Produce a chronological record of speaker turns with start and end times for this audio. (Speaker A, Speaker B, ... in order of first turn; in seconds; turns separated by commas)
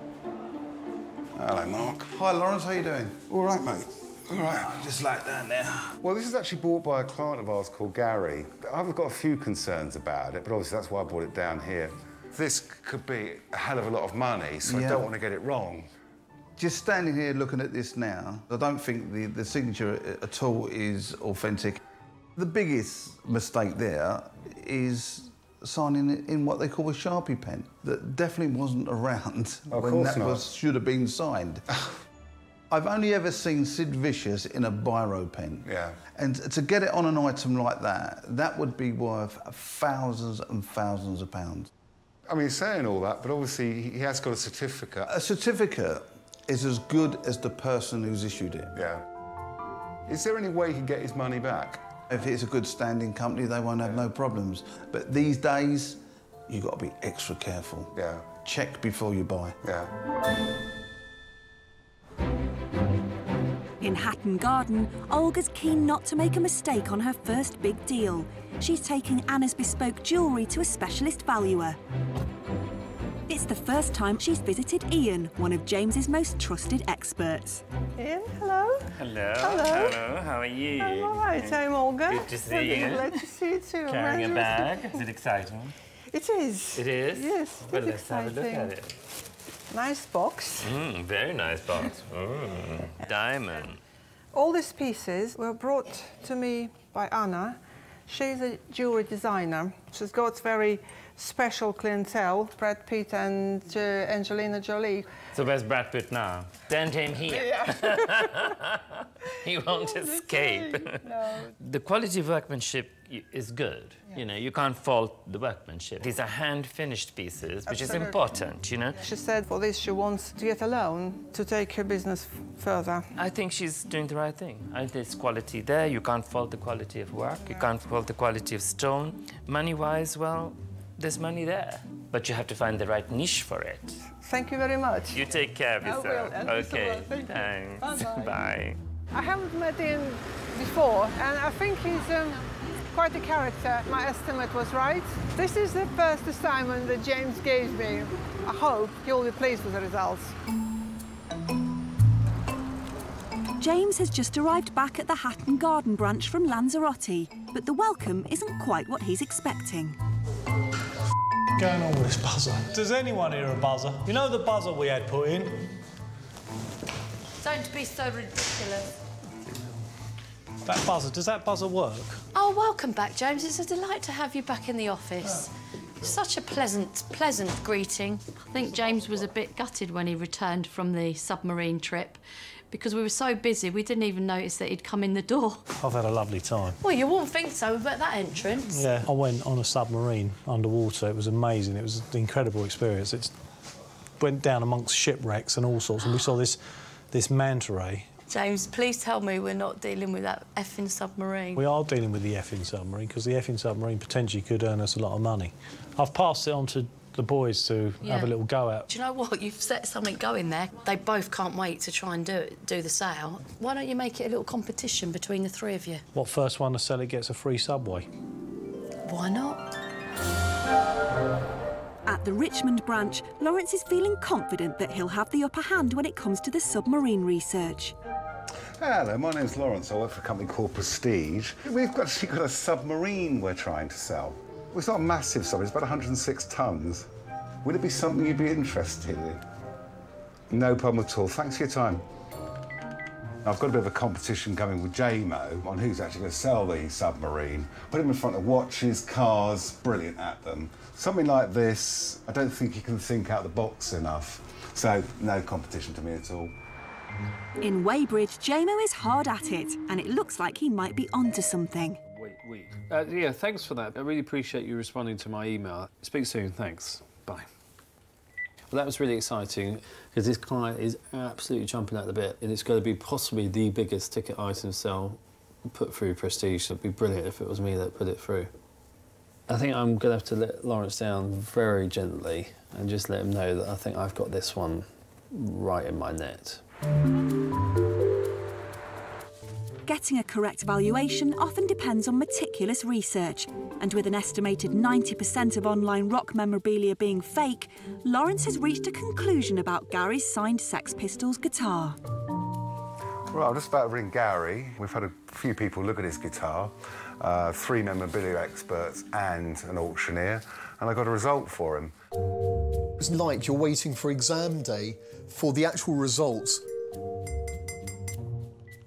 Speaker A: 1.5-3.6, Speaker B: 3.3-4.7, Speaker A: 4.3-5.9, Speaker B: 6.0-15.9, Speaker A: 14.6-15.1, Speaker A: 16.6-21.8, Speaker A: 22.4-31.6, Speaker B: 29.7-30.5, Speaker A: 32.7-41.7, Speaker B: 35.6-36.0, Speaker B: 42.3-45.1, Speaker A: 45.1-48.7, Speaker B: 48.7-49.0, Speaker B: 50.1-51.8, Speaker A: 52.1-59.6, Speaker B: 57.9-58.3, Speaker B: 59.6-59.9, Speaker C: 63.8-71.8, Speaker C: 73.3-77.6, Speaker D: 78.0-80.0, Speaker E: 78.9-83.1, Speaker D: 80.8-85.0, Speaker E: 83.8-85.7, Speaker D: 86.1-88.8, Speaker E: 86.7-88.9, Speaker D: 89.7-90.7, Speaker E: 90.6-93.8, Speaker D: 94.3-105.1, Speaker E: 105.3-108.8, Speaker D: 107.3-107.7, Speaker E: 109.4-119.0, Speaker D: 110.3-111.2, Speaker D: 117.7-118.2, Speaker D: 119.0-123.1, Speaker E: 123.1-134.0, Speaker D: 134.2-138.3, Speaker E: 135.1-138.8, Speaker D: 139.1-150.3, Speaker C: 153.6-160.0, Speaker F: 161.6-165.7, Speaker G: 167.4-168.9, Speaker F: 170.6-172.2, Speaker G: 172.3-185.7, Speaker F: 185.8-186.8, Speaker G: 186.8-188.9, Speaker F: 188.7-193.3, Speaker F: 194.2-196.6, Speaker G: 196.0-196.4, Speaker F: 197.1-198.1, Speaker G: 198.3-201.6, Speaker F: 201.6-208.9, Speaker G: 208.0-208.3, Speaker G: 208.9-216.0, Speaker F: 216.1-218.1, Speaker G: 219.1-219.6, Speaker C: 222.1-227.9, Speaker B: 228.8-237.1, Speaker B: 237.6-239.4, Speaker B: 240.5-242.0, Speaker B: 243.4-256.5, Speaker C: 257.6-262.0, Speaker H: 262.1-267.5, Speaker H: 268.7-278.5, Speaker H: 279.5-286.6, Speaker C: 289.9-302.0, Speaker B: 303.3-311.9, Speaker I: 313.0-316.6